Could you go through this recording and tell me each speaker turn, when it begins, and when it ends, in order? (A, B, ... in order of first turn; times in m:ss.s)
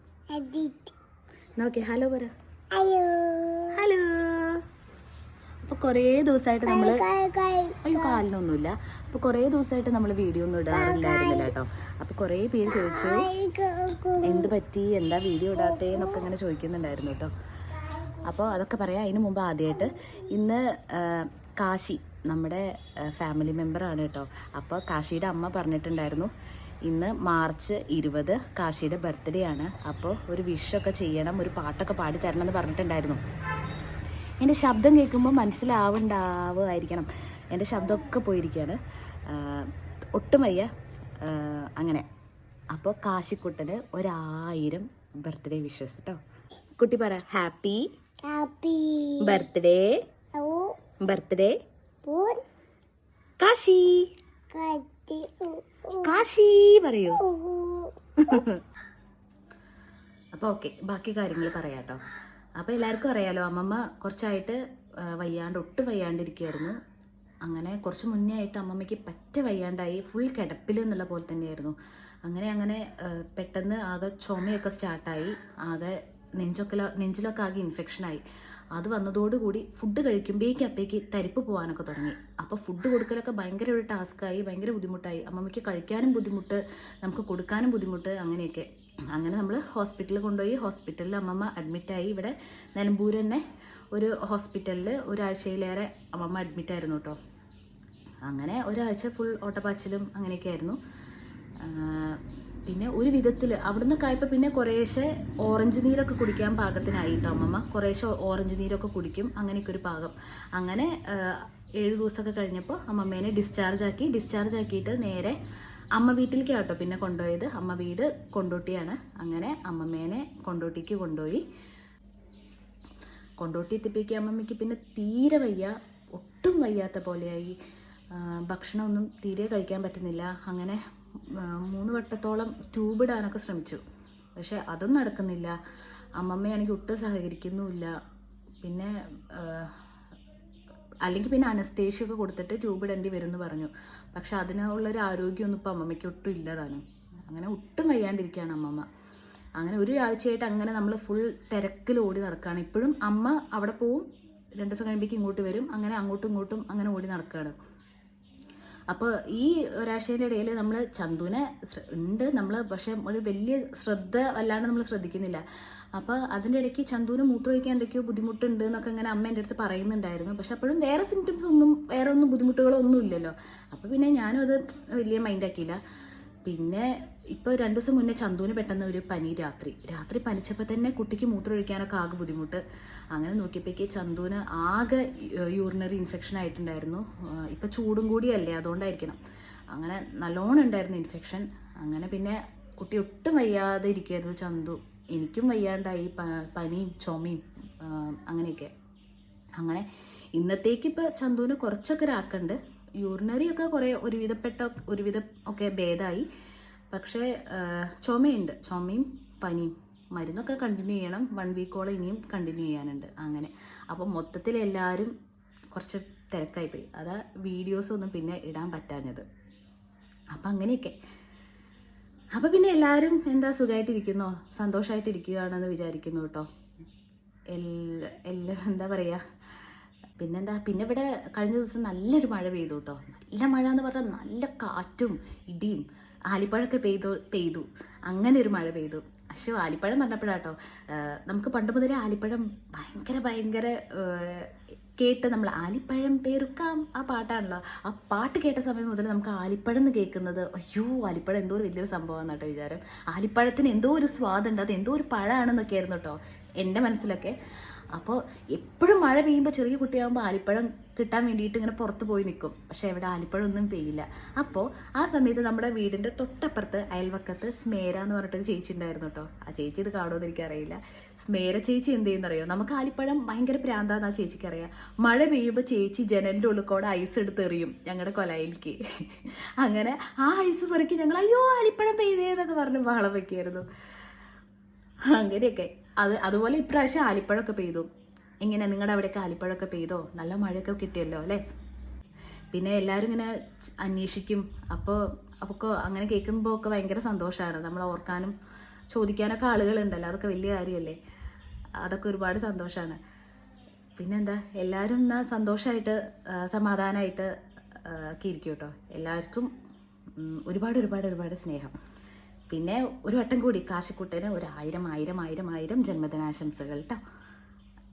0:00.3-0:00.9 A
0:01.6-0:02.3 B
0:02.7-0:03.8 A
0:03.7-0:04.6 B
0:05.6-0:07.0 B
0:06.6-0:08.2 A
0:07.8-0:13.3 B
0:10.7-0:11.5 A
0:12.6-0:14.5 A
0:14.2-0:17.3 B
0:15.6-0:16.2 A
0:18.1-0:26.3 B
0:26.9-0:33.2 B
0:34.4-0:40.7 B
0:41.2-0:42.0 B
0:42.7-0:46.2 B
0:46.8-0:47.9 B
0:48.2-0:49.5 A
0:49.2-0:50.0 B
0:50.3-0:50.8 A
0:51.0-0:51.6 B
0:52.0-0:52.4 A
0:53.4-0:54.1 B
0:54.5-0:56.2 A
0:56.0-0:57.2 B
0:57.1-0:58.4 A
0:58.2-0:58.6 B
1:00.3-1:02.0 B
1:02.6-1:06.8 B
1:07.4-1:11.7 B
1:12.2-1:18.2 B
1:18.7-1:37.2 B
1:38.2-1:40.8 B
1:41.6-1:55.3 B
1:56.0-2:01.4 B
2:03.4-2:07.5 B
2:08.1-2:10.8 B
2:11.3-2:13.8 B
2:14.4-2:15.5 B
2:16.2-2:17.9 B
2:18.6-2:19.7 B
2:21.0-2:28.8 B
2:29.6-2:34.0 B
2:34.6-2:37.5 B
2:38.9-2:45.4 B
2:46.0-2:55.8 B
2:56.4-3:02.6 B
3:03.1-3:09.2 B
3:09.7-3:18.7 B
3:19.6-3:19.8 B
3:20.4-3:26.2 B
3:26.9-3:35.1 B
3:35.7-3:39.2 B
3:40.3-3:40.9 B
3:42.3-3:46.4 B
3:47.5-3:49.2 B
3:50.2-4:17.4 B
4:17.9-4:43.6 B
4:45.1-4:47.9 B
4:48.4-4:51.4 B
4:52.5-4:58.3 B
4:58.9-5:01.0 B
5:01.8-5:03.0 B
5:04.0-5:07.3 B
5:07.8-5:09.5 B
5:10.2-5:11.8 B
5:12.5-5:17.0 B